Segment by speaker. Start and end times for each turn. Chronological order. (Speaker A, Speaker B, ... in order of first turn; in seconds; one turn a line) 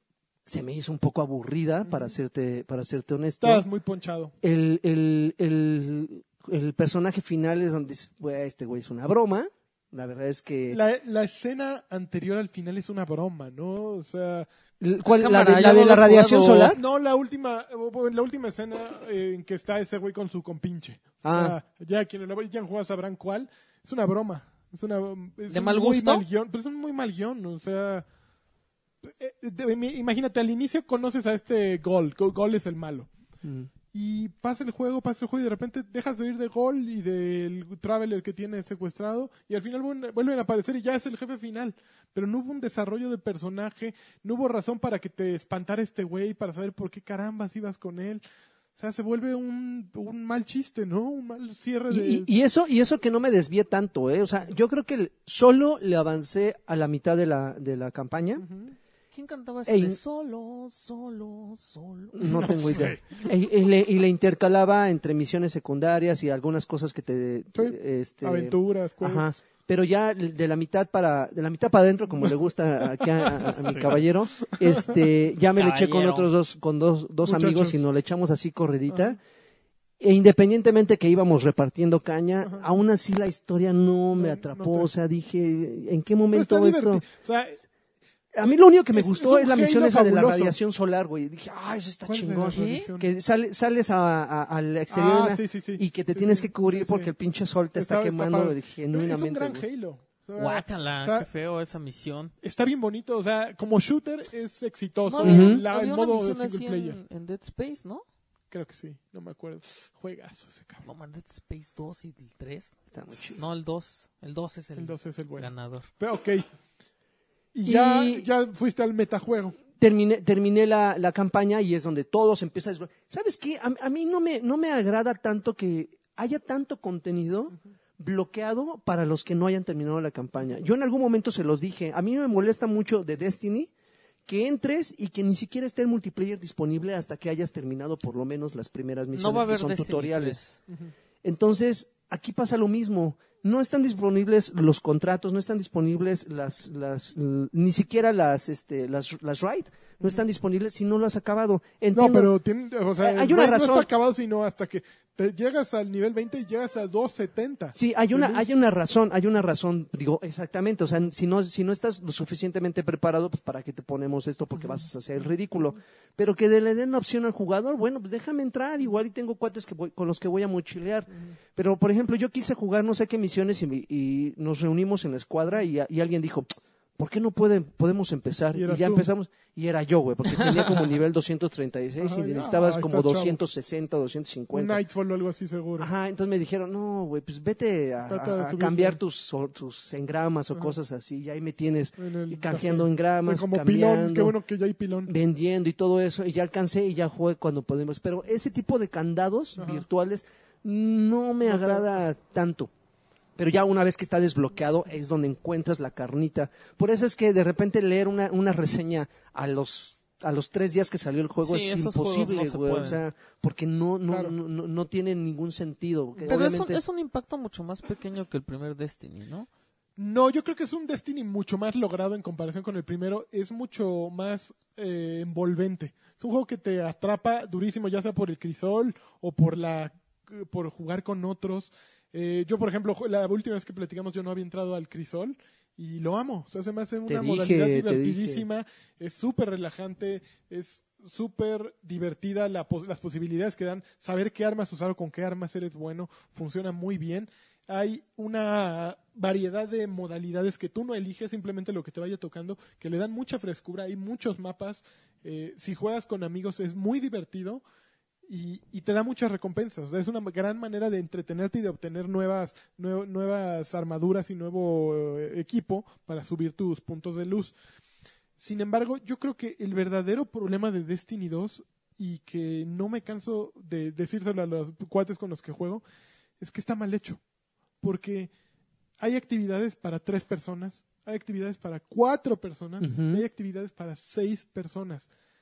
Speaker A: 0.5-3.7
Speaker B: 1.8-2.1
Speaker B: 3.4-4.3
Speaker A: 4.4-10.8
Speaker B: 10.7-14.5
Speaker A: 14.8-16.8
Speaker C: 15.2-16.7
Speaker B: 16.6-28.1
Speaker A: 21.2-21.6
Speaker C: 25.5-26.2
Speaker B: 29.0-33.1
Speaker A: 33.4-33.7
Speaker B: 33.9-48.2
Speaker B: 48.8-52.3
Speaker A: 51.9-58.5
Speaker B: 58.4-58.8
Speaker C: 59.1-62.8
Speaker A: 59.7-60.0
Speaker A: 62.1-79.2
Speaker B: 62.2-63.3
Speaker B: 67.5-69.3
Speaker B: 73.0-75.1
Speaker C: 75.5-76.3
Speaker B: 77.2-77.8
Speaker B: 78.9-79.2
Speaker A: 80.0-87.0
Speaker B: 84.2-84.9
Speaker B: 86.3-87.6
Speaker A: 88.3-99.7
Speaker B: 88.4-90.6
Speaker B: 92.1-93.1
Speaker C: 92.5-92.9
Speaker B: 94.9-97.1
Speaker B: 97.8-101.3
Speaker C: 100.4-102.3
Speaker B: 102.4-107.0
Speaker C: 105.1-108.0
Speaker A: 105.2-105.6
Speaker B: 108.5-110.8
Speaker C: 110.8-112.8
Speaker A: 112.9-113.4
Speaker C: 113.3-115.9
Speaker B: 114.8-116.5
Speaker B: 117.5-119.6
Speaker A: 117.7-118.3
Speaker A: 119.8-133.7
Speaker A: 134.3-140.4
Speaker C: 139.1-140.6
Speaker A: 141.2-152.3
Speaker B: 151.9-158.5
Speaker A: 153.0-153.9
Speaker A: 157.7-184.8
Speaker B: 178.5-179.1
Speaker C: 180.4-180.7
Speaker B: 182.0-183.4
Speaker B: 184.5-185.9
Speaker A: 185.8-194.3
Speaker B: 188.1-189.0
Speaker B: 192.0-195.1
Speaker A: 195.1-202.7
Speaker B: 199.6-199.8
Speaker B: 201.4-202.0
Speaker A: 203.4-216.8
Speaker C: 211.4-213.0
Speaker B: 214.1-214.4
Speaker C: 216.2-219.5
Speaker B: 220.0-257.6
Speaker A: 237.1-238.4
Speaker B: 258.3-267.5
Speaker B: 268.4-275.8
Speaker B: 276.4-277.2
Speaker B: 277.8-278.3
Speaker B: 279.0-285.1
Speaker A: 282.8-283.2